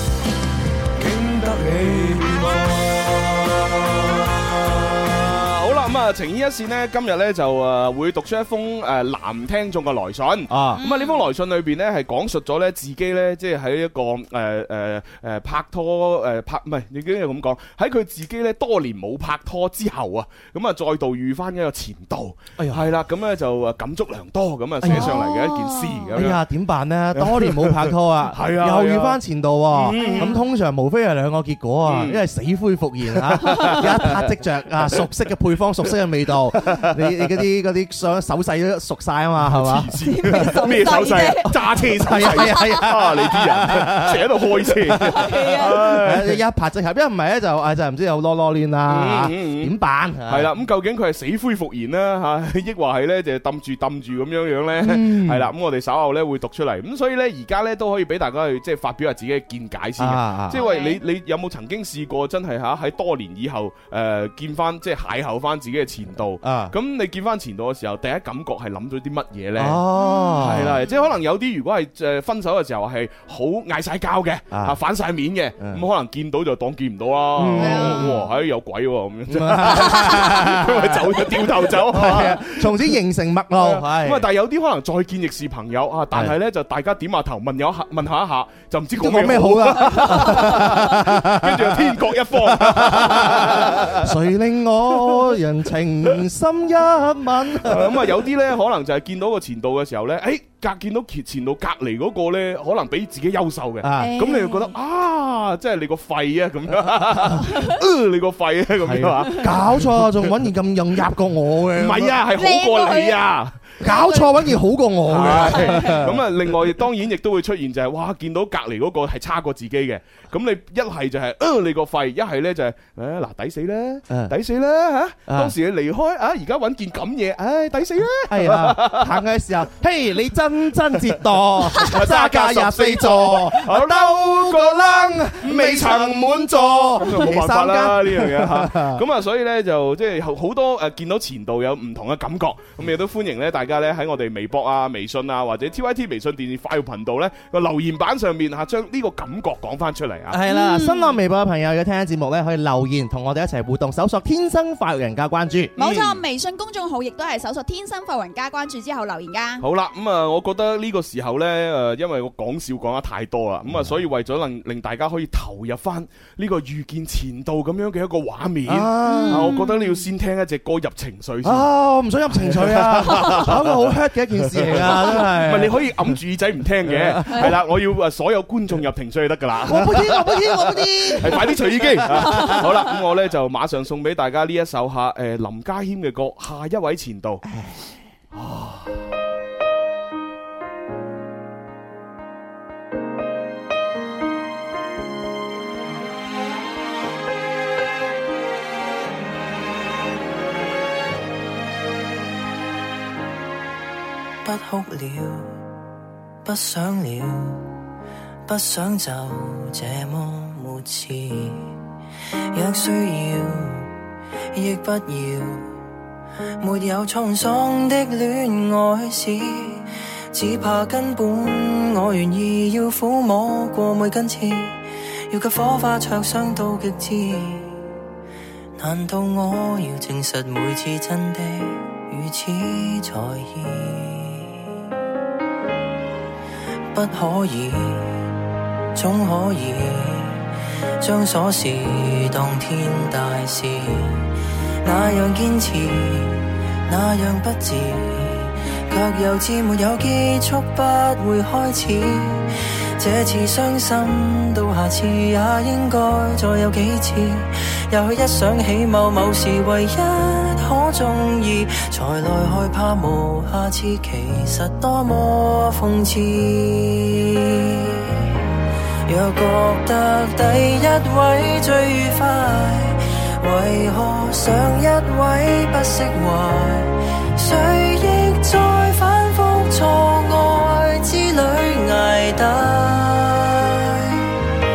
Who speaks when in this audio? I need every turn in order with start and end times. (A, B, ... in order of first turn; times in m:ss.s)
0:01.0-0:05.2 A
0:05.4-0:26.4 B
0:10.5-0:10.8 C
0:10.8-0:11.3 D
0:22.6-0:22.8 C
0:24.8-0:25.2 C
0:24.9-0:26.1 D
0:26.1-0:50.5 C
0:27.2-0:30.4 B
0:29.9-0:30.3 D
0:31.9-0:32.2 B
0:33.1-0:34.1 B
0:36.6-0:37.4 B
0:39.4-0:46.4 B
0:40.0-0:41.5 D
0:42.1-0:42.7 D
0:45.0-0:45.8 D
0:48.9-0:49.8 B
0:50.3-1:22.9 B
0:54.8-0:55.5 C
1:00.0-1:00.6 C
1:00.5-1:01.0 D
1:06.4-1:06.7 C
1:09.6-1:10.8 C
1:10.0-1:11.0 D
1:14.5-1:14.8 C
1:15.6-1:15.8 C
1:17.4-1:18.3 C
1:17.6-1:18.3 D
1:19.3-1:24.2 C
1:23.6-1:34.0 B
1:26.1-1:26.4 C
1:28.9-1:38.1 C
1:37.6-1:50.4 B
1:43.8-1:44.2 C
1:44.0-1:44.7 D
1:47.4-1:47.8 D
1:48.8-1:52.2 C
1:51.8-1:53.6 B
1:52.4-1:53.2 D
1:53.8-1:54.4 D
1:53.8-1:56.2 C
1:55.1-2:09.2 B
1:55.2-1:56.0 D
2:04.1-2:04.4 C
2:05.3-2:05.5 C
2:08.3-2:19.0 C
2:11.8-2:30.4 B
2:30.3-2:35.7 C
2:30.4-2:31.2 D
2:35.8-2:36.2 B
2:35.8-2:39.6 D
2:39.6-2:51.7 B
2:43.7-2:44.0 C
2:48.7-2:49.6 C
2:49.0-2:50.0 D
2:51.4-2:56.2 C
2:52.3-2:53.9 B
2:54.5-3:07.4 B
2:56.8-2:57.6 C
2:57.3-2:57.6 D
2:59.7-3:02.7 C
3:02.2-3:02.6 D
3:07.5-3:07.8 C
3:08.3-3:09.1 B
3:24.4-3:25.6 E
3:26.4-3:27.8 E
3:28.5-3:31.8 E
3:32.5-3:33.9 E
3:34.5-3:35.7 E
3:36.6-3:47.8 E
3:48.8-3:54.7 E
3:56.9-3:58.3 E
3:58.9-4:00.5 E
4:01.0-4:28.5 E
4:29.1-4:44.4 E